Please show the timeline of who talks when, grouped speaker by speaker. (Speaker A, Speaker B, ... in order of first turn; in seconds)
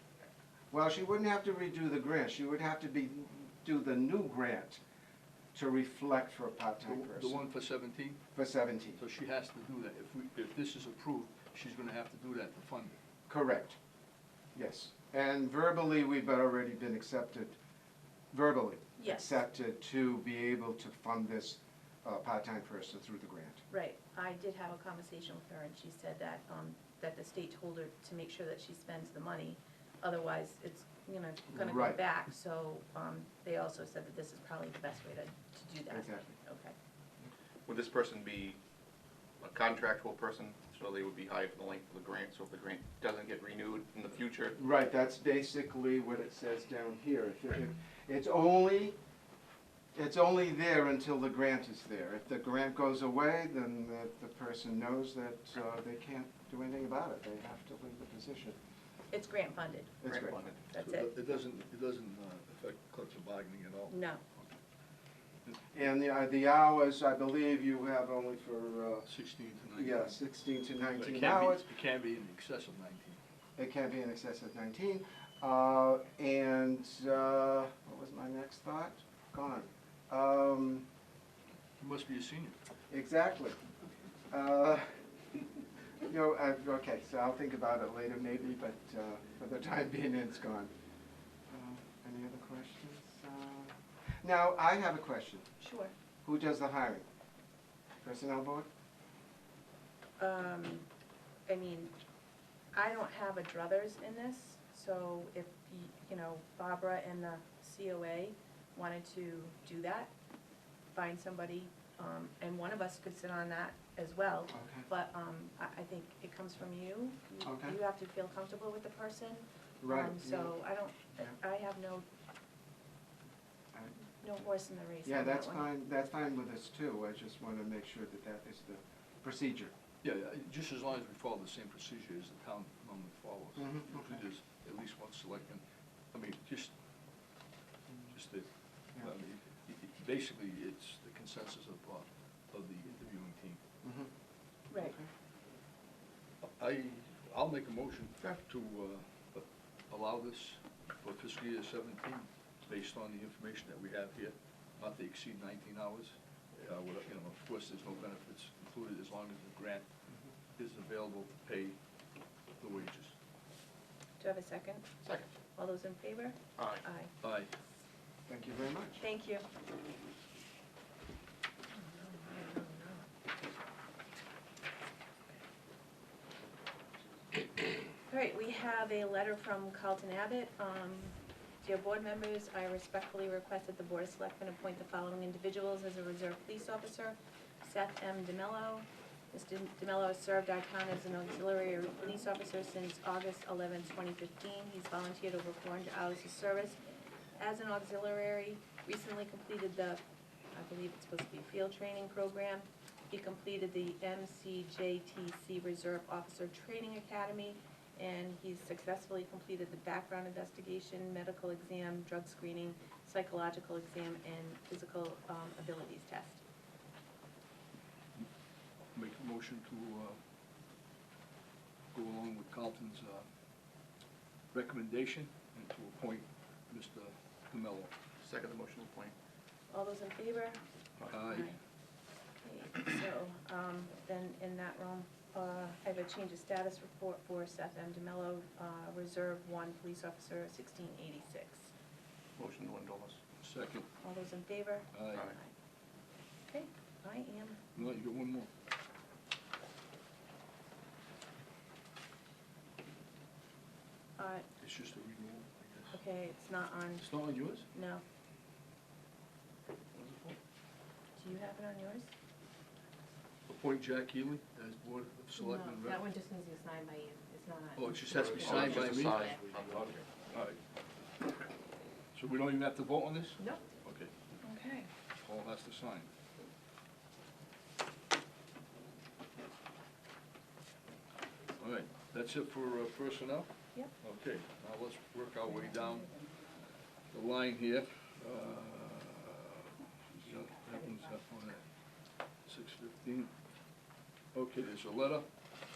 Speaker A: 0.7-4.8, 5.5-7.5, 8.3-9.0, 13.3-13.8, 14.5-17.6, 18.3-23.6, 31.5-32.0, 35.9-36.4, 44.6-49.0, 49.9-58.6, 60.0-60.5, 65.7-69.1, 69.7-71.7, 73.6-80.8, 82.9-83.6, 84.3-84.9, 86.1-90.7, 91.5-95.5, 96.2-97.0, 98.0-98.7, 114.5-114.9, 117.4-117.8, 119.8-120.6, 125.0-129.7, 133.6-134.2, 143.8-144.1, 144.7-145.1, 168.3-169.0
Speaker B: 6.8-8.2, 9.0-13.0, 60.8-64.6, 69.0-70.2, 70.9-73.2, 81.8-82.6, 130.0-136.7, 138.1-143.6, 146.4-159.8, 160.6-161.8, 162.6-163.1, 167.2-167.5, 218.9-220.2, 221.9-223.3, 224.5-227.9, 231.1-231.5, 243.4-243.9, 244.9-245.3, 247.7-248.5, 254.6-256.0, 257.0-257.6, 263.5-266.1, 267.8-269.4, 270.3-270.6, 272.1-274.1, 275.2-276.1, 281.6-286.2, 287.1-291.6, 292.4-293.3, 294.3-295.3
Speaker C: 19.0-19.4, 23.7-36.7, 59.1-61.1, 63.9-64.2, 95.6-95.9, 100.2-100.9, 101.5-101.9, 102.7-110.1, 110.9-122.0, 124.2-125.7, 144.7-144.9, 164.2-164.8, 165.5-167.1, 169.0-169.4, 171.7-173.1, 178.1-196.8, 197.4-200.0, 200.5-216.4, 229.7-230.6, 231.2-231.6, 232.4-241.7, 244.0-245.5, 246.5-247.6, 254.2-254.5, 255.9-257.1, 257.7-258.0, 261.2-262.1, 274.4-274.9
Speaker D: 37.6-38.6, 39.4-44.6, 60.1-60.6, 165.0-165.3, 166.6-166.8, 228.2-229.1, 242.4-243.2, 260.0-260.4, 268.1-270.1
Speaker E: 265.3-269.4